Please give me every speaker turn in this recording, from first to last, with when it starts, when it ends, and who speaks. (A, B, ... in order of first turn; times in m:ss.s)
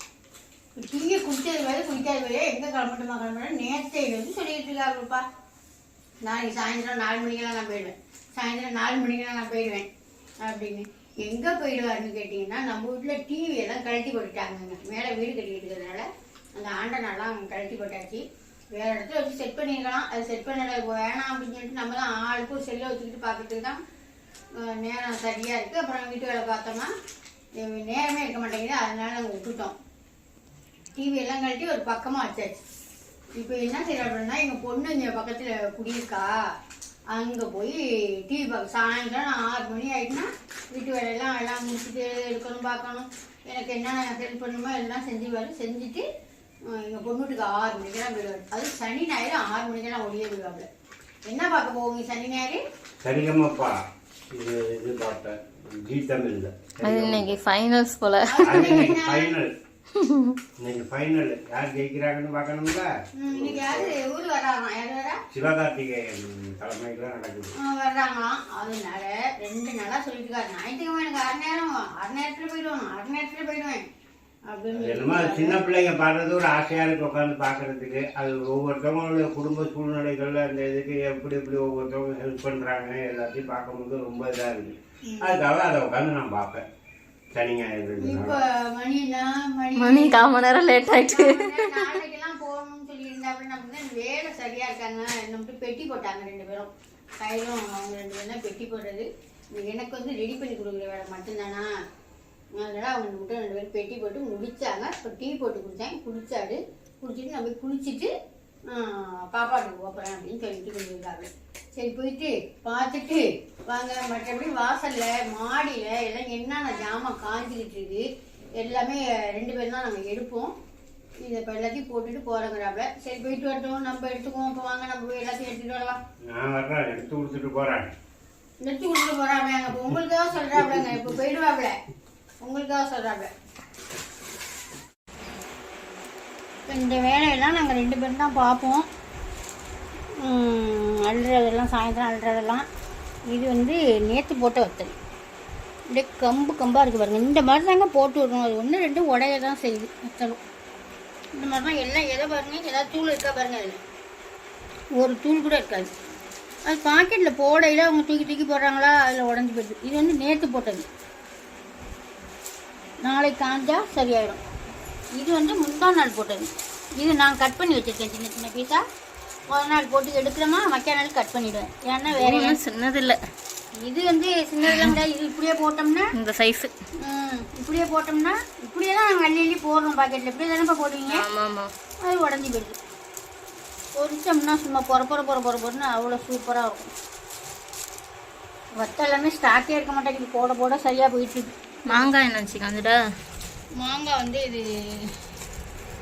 0:00.8-0:05.2 A
0:06.2-0:09.9 A
0:10.4-0:18.2 A
0:18.7-0:23.8 A
0:24.6-0:26.9 A
0:27.6-0:29.7 A
0:31.0-0:32.6 A
0:33.4-0:36.3 A
0:37.1-0:46.0 A
0:46.7-0:50.7 A
0:51.3-0:52.6 A
0:53.0-0:53.8 B
0:54.3-0:57.4 B
0:56.8-0:58.9 C
0:58.3-0:59.3 A
0:58.4-0:59.5 B
0:59.9-1:00.4 C
1:00.6-1:04.0 B
1:03.2-1:05.2 A
1:05.3-1:07.5 B
1:07.6-1:13.8 A
1:14.5-1:15.6 A
1:14.8-1:26.6 B
1:25.1-1:25.4 A
1:27.3-1:28.4 B
1:28.0-1:41.7 A
1:29.8-1:31.8 C
1:42.6-1:48.1 A
1:48.7-1:58.0 A
1:58.6-2:00.5 A
2:01.2-2:06.0 A
2:06.3-2:07.9 B
2:08.6-2:11.7 A
2:12.4-2:13.3 A
2:16.7-2:18.9 A
2:20.2-2:22.7 A
2:23.3-2:24.9 A
2:25.9-2:30.4 A
2:31.4-2:33.8 A
2:35.0-2:35.9 A
2:36.7-2:40.9 A
2:43.0-2:44.4 A
2:45.2-2:48.8 A
2:49.5-2:52.6 A
2:52.1-2:53.2 C
2:53.8-2:56.1 A
2:56.2-2:56.7 C
2:57.0-3:01.2 A
3:01.1-3:01.7 C
3:02.0-3:02.8 A
3:04.0-3:06.9 A
3:08.8-3:12.1 A
3:11.9-3:13.0 C
3:13.8-3:15.1 A